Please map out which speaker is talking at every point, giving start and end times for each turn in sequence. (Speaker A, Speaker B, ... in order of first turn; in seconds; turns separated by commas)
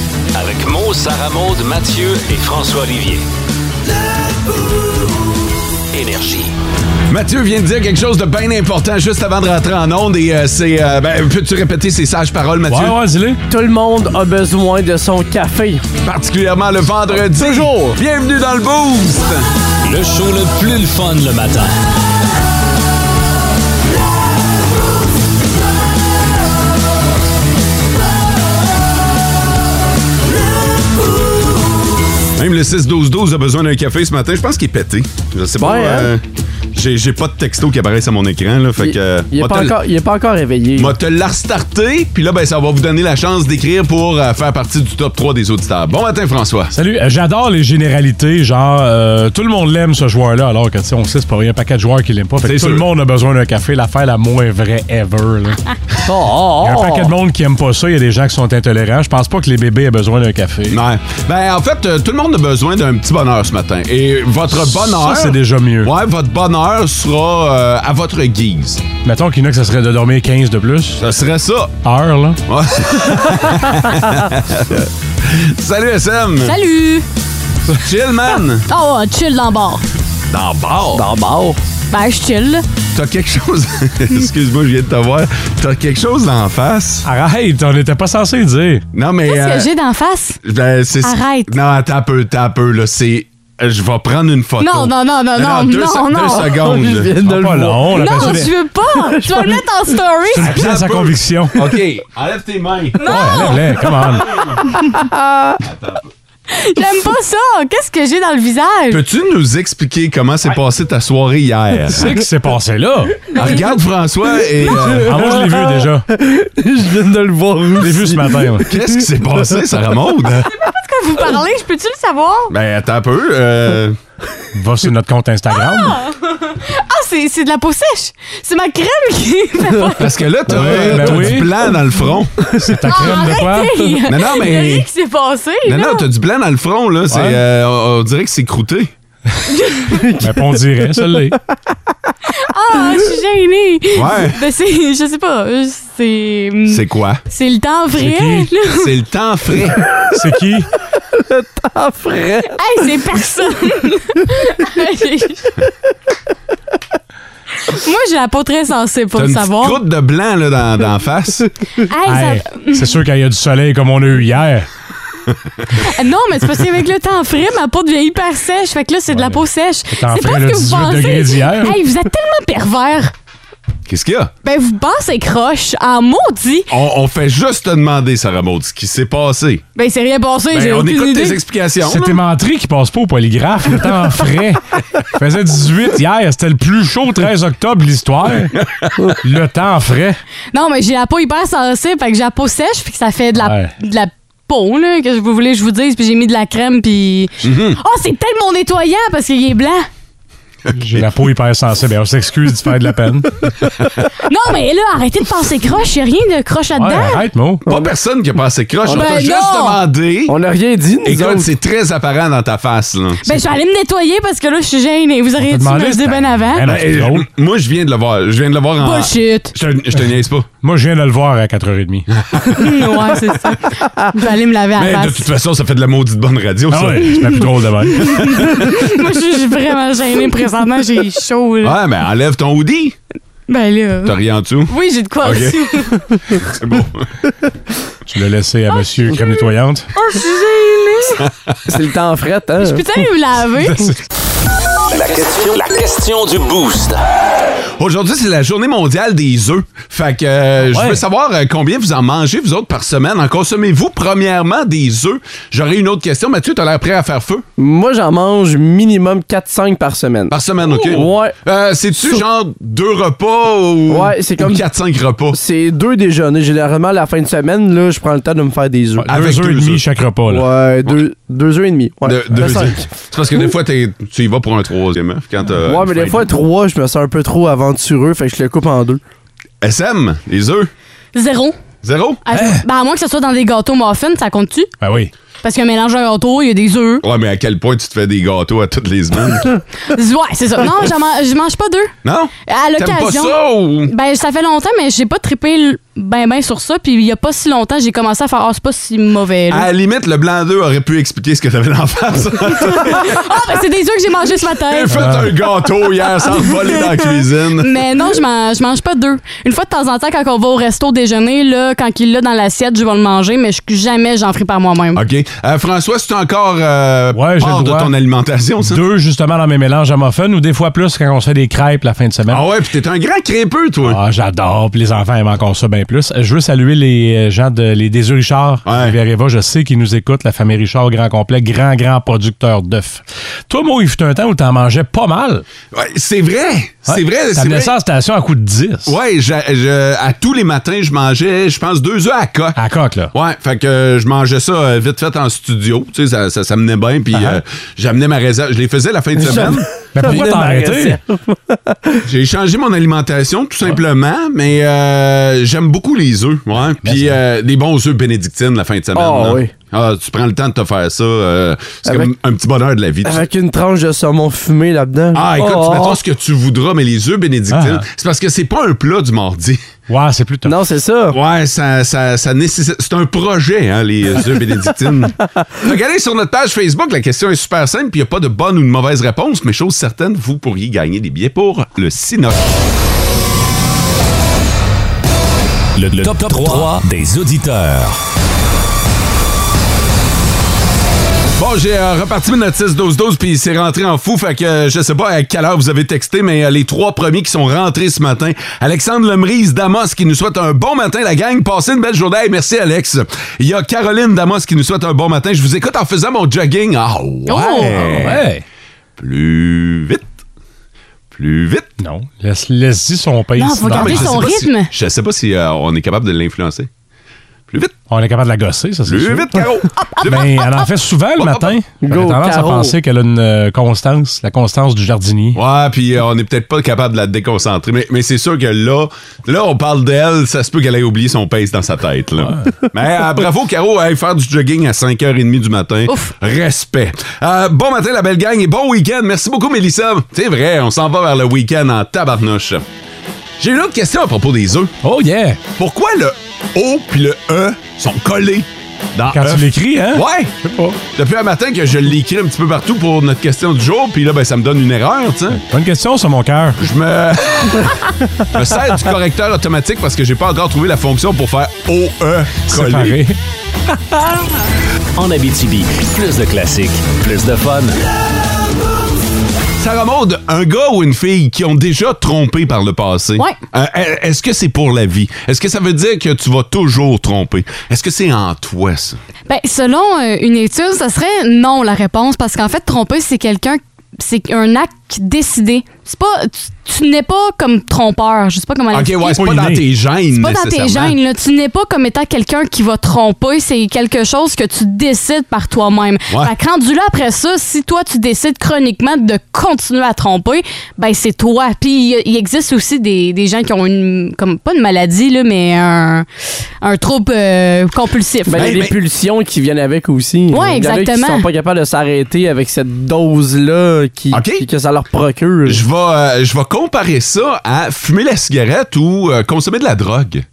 Speaker A: 0.3-3.2, Speaker A: 5.9-6.5, Speaker B: 7.1-13.0, Speaker C: 12.7-13.4, Speaker D: 13.5-15.8, Speaker B: 16.0-19.5, Speaker D: 17.2-17.9, Speaker A: 19.8-21.7, Speaker B: 32.3-39.8, Speaker D: 35.6-36.1, Speaker D: 38.8-40.9, Speaker B: 40.8-46.7, Speaker C: 46.7-55.6, Speaker B: 52.4-52.9, Speaker D: 56.0-57.1, Speaker C: 56.6-60.8, Speaker B: 60.7-68.8, Speaker C: 64.6-65.9, Speaker C: 69.0-71.0, Speaker B: 71.0-71.8, Speaker C: 71.8-72.4, Speaker B: 72.5-76.6, Speaker E: 76.4-77.0, Speaker B: 77.8-78.7, Speaker E: 78.7-79.8, Speaker B: 80.3-81.0, Speaker D: 80.9-81.6, Speaker E: 81.9-82.6, Speaker B: 82.9-87.0, Speaker C: 87.0-88.8, Speaker B: 88.9-89.7, Speaker E: 89.2-90.4, Speaker B: 90.4-97.1, Speaker E: 91.0-91.5, Speaker E: 94.6-96.7, Speaker D: 96.3-99.6, Speaker C: 97.2-98.5, Speaker E: 97.9-100.6, Speaker C: 100.3-101.5, Speaker B: 100.4-103.5, Speaker E: 103.0-103.8, Speaker C: 103.0-104.3, Speaker D: 104.8-105.6, Speaker B: 105.6-106.1, Speaker E: 106.5-109.0, Speaker B: 108.9-112.2, Speaker C: 111.9-113.3, Speaker B: 113.3-115.1, Speaker C: 114.9-116.1, Speaker D: 115.0-118.9, Speaker C: 117.8-118.7, Speaker B: 118.7-120.5, Speaker E: 120.5-122.5, Speaker B: 122.5-124.0, Speaker C: 124.5-126.0, Speaker E: 125.6-130.2, Speaker B: 130.0-132.6, Speaker C: 130.5-131.5, Speaker D: 130.5-131.4, Speaker C: 132.6-133.7, Speaker E: 132.9-136.1, Speaker B: 134.1-134.9, Speaker B: 135.6-138.9, Speaker C: 137.1-137.4, Speaker E: 139.5-140.0, Speaker D: 139.9-141.0, Speaker C: 140.2-141.4, Speaker E: 142.3-148.9, Speaker B: 143.9-144.4, Speaker B: 146.7-147.2, Speaker C: 148.0-148.5, Speaker B: 148.7-149.8, Speaker C: 150.1-150.7, Speaker D: 151.1-152.6, Speaker E: 152.5-155.5, Speaker E: 157.7-159.8, Speaker B: 159.2-161.4, Speaker E: 161.8-163.0, Speaker C: 162.1-164.7, Speaker E: 165.8-173.1, Speaker C: 169.1-171.8, Speaker B: 173.9-174.3, Speaker E: 174.4-176.7, Speaker B: 176.7-179.6, Speaker E: 179.8-181.4, Speaker B: 180.5-182.2, Speaker C: 181.8-188.6, Speaker B: 188.5-188.9, Speaker C: 189.2-190.2, Speaker E: 190.5-199.8, Speaker C: 193.4-193.7, Speaker B: 197.4-197.8, Speaker B: 200.7-201.1, Speaker C: 200.8-203.5, Speaker E: 204.2-207.2, Speaker C: 206.8-207.6, Speaker B: 207.7-210.3, Speaker E: 208.8-209.8, Speaker D: 210.3-211.5, Speaker B: 211.0-213.4, Speaker E: 213.2-216.7, Speaker C: 215.4-217.3, Speaker B: 216.6-220.5, Speaker E: 218.8-219.5, Speaker C: 220.6-222.1, Speaker B: 222.1-222.9, Speaker E: 222.5-225.3, Speaker B: 224.8-227.2, Speaker C: 226.7-228.2, Speaker E: 227.1-231.8, Speaker B: 228.0-228.8, Speaker B: 231.6-232.9, Speaker E: 233.5-234.1, Speaker B: 234.0-235.8, Speaker E: 234.7-236.1, Speaker B: 236.4-237.1, Speaker C: 238.1-239.9, Speaker E: 239.1-241.2, Speaker B: 241.2-241.5, Speaker D: 241.7-242.8, Speaker E: 242.6-243.9, Speaker A: 244.9-247.0, Speaker B: 247.8-257.4, Speaker C: 250.7-251.0, Speaker D: 257.6-261.4, Speaker B: 260.3-265.4, Speaker D: 262.0-262.2, Speaker D: 263.9-264.6, Speaker D: 265.3-269.1, Speaker C: 269.0-270.5, Speaker B: 269.1-269.8, Speaker D: 270.3-272.8, Speaker B: 272.0-276.3, Speaker D: 275.6-279.0, Speaker B: 279.6-280.7, Speaker E: 281.1-281.5, Speaker B: 281.8-282.2, Speaker E: 282.2-284.7, Speaker C: 282.3-282.6, Speaker C: 284.8-285.1, Speaker E: 285.4-287.0, Speaker B: 287.0-289.6, Speaker E: 289.9-291.9, Speaker B: 292.0-293.9, Speaker E: 292.4-299.7, Speaker B: 299.5-303.2, Speaker E: 302.6-305.0, Speaker B: 304.7-307.8, Speaker C: 304.9-305.3, Speaker E: 307.5-315.0, Speaker B: 314.9-318.8, Speaker C: 317.1-317.9, Speaker C: 318.6-322.4, Speaker B: 322.3-324.0, Speaker C: 323.8-335.4, Speaker B: 328.6-329.0, Speaker B: 335.7-337.7, Speaker C: 336.9-338.9, Speaker B: 338.9-342.6, Speaker C: 342.6-343.1, Speaker B: 343.1-349.7, Speaker C: 347.1-347.4, Speaker D: 349.2-352.0, Speaker C: 349.9-351.0, Speaker B: 352.0-363.3, Speaker C: 356.8-357.2, Speaker D: 358.9-359.5, Speaker D: 363.1-366.0, Speaker B: 365.1-369.6, Speaker C: 367.5-367.8, Speaker C: 369.9-370.6, Speaker D: 370.4-371.2, Speaker B: 371.1-382.5, Speaker A: 385.8-388.0, Speaker B: 386.3-386.7, Speaker B: 391.4-408.2, Speaker E: 407.3-407.9, Speaker C: 407.7-408.4, Speaker B: 409.0-410.1, Speaker B: 411.1-411.7, Speaker C: 411.8-414.1, Speaker E: 413.4-414.7, Speaker B: 413.7-416.7, Speaker B: 417.5-417.8, Speaker C: 417.9-419.4, Speaker B: 418.9-420.6, Speaker E: 419.8-420.5, Speaker C: 420.0-425.4, Speaker B: 421.2-421.6, Speaker D: 421.8-422.7, Speaker B: 425.3-442.6, Speaker B: 443.4-444.7, Speaker C: 444.8-445.4, Speaker B: 445.6-450.3, Speaker C: 449.1-450.8, Speaker B: 450.9-455.4, Speaker C: 455.3-456.6, Speaker B: 456.6-463.0, Speaker C: 462.5-463.2, Speaker A: 465.0-467.7, Speaker B: 469.6-479.0, Speaker E: 479.3-489.3, Speaker B: 488.7-491.0, Speaker C: 489.2-489.6, Speaker E: 490.1-506.1, Speaker E: 506.6-508.6, Speaker D: 508.2-515.6, Speaker B: 508.3-508.8, Speaker E: 510.3-511.2, Speaker B: 514.1-514.4, Speaker B: 515.4-520.2